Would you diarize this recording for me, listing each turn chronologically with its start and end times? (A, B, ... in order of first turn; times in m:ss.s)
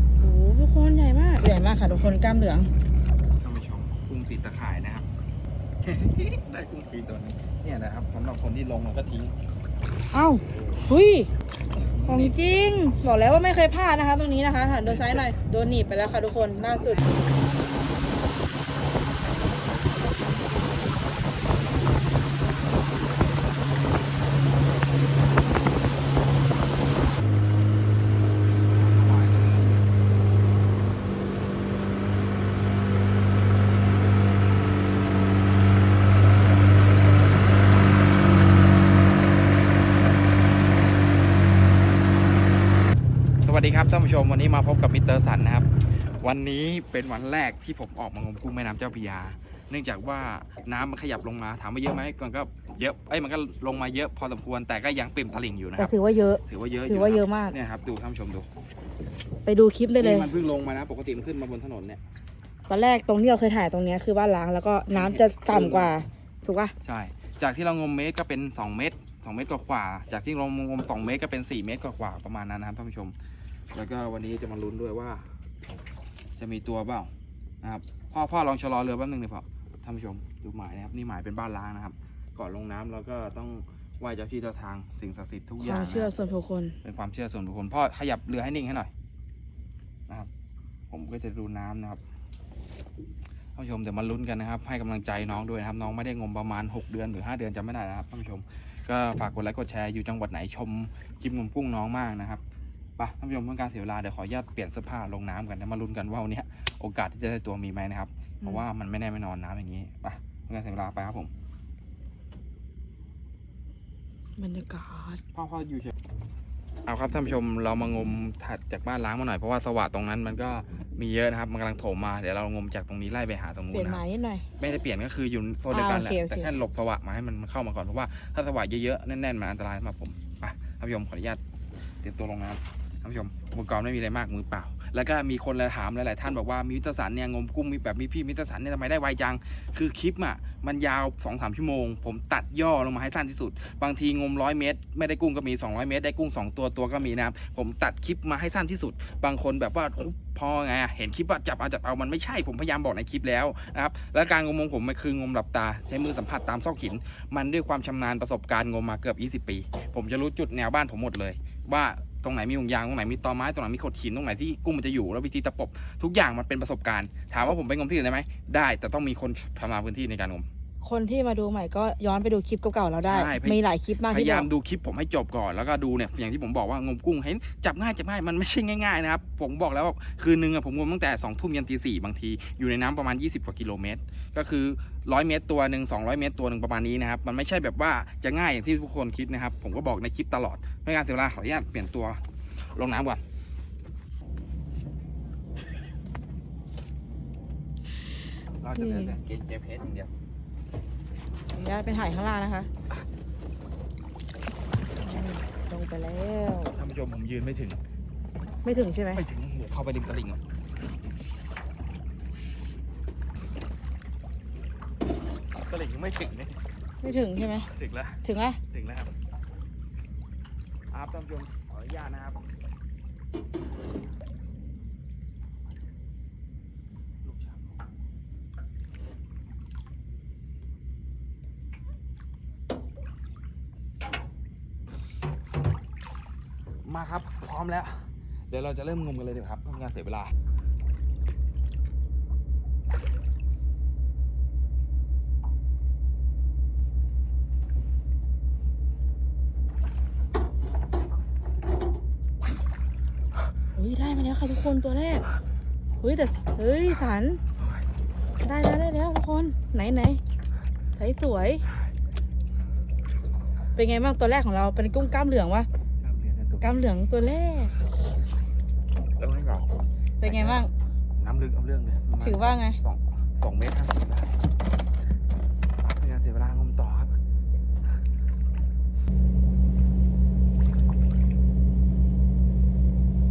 0:00.2-0:02.7 A
0:03.4-0:05.1 B
0:05.8-0:09.4 B
0:10.1-0:11.3 A
0:11.9-0:12.4 B
0:12.1-0:17.0 A
0:14.9-0:15.3 B
0:17.0-0:17.2 B
0:19.3-0:20.4 B
0:24.2-0:25.3 B
0:28.7-0:30.0 B
0:43.4-0:56.0 B
0:55.8-0:57.6 A
0:56.5-0:58.5 B
0:59.4-1:00.3 A
1:00.0-1:02.0 B
1:02.7-1:06.7 A
1:04.9-1:05.9 B
1:06.8-1:13.2 B
1:13.7-1:15.3 B
1:16.4-1:17.1 B
1:17.6-1:26.1 B
1:25.6-1:26.8 A
1:26.8-1:28.9 B
1:30.9-1:32.0 B
1:33.6-1:42.4 B
1:43.0-1:51.3 B
1:54.4-1:55.2 A
1:55.3-1:55.9 B
1:56.8-2:04.0 B
2:03.7-2:04.5 A
2:04.6-2:11.4 B
2:05.7-2:06.6 A
2:12.0-2:50.5 B
2:50.8-2:54.5 A
2:53.0-3:13.2 B
3:18.6-3:20.1 B
3:18.8-3:19.1 A
3:21.5-3:22.7 A
3:25.0-3:26.8 A
3:26.8-3:27.8 B
3:28.6-3:29.2 A
3:29.1-3:30.4 B
3:35.5-3:36.6 B
3:37.0-3:37.7 A
3:37.7-3:39.1 B
3:38.2-3:38.6 A
3:40.9-3:42.4 B
3:47.2-3:47.8 B
3:56.8-4:00.3 B
4:13.8-4:15.2 A
4:16.0-4:17.4 A
4:17.6-4:17.9 B
4:18.4-4:20.2 A
4:21.0-4:21.6 A
4:23.8-4:25.7 A
4:26.0-4:26.6 B
4:26.6-4:27.8 A
4:29.2-4:34.4 B
4:30.2-4:30.7 A
4:32.2-4:32.8 A
4:35.8-4:37.2 B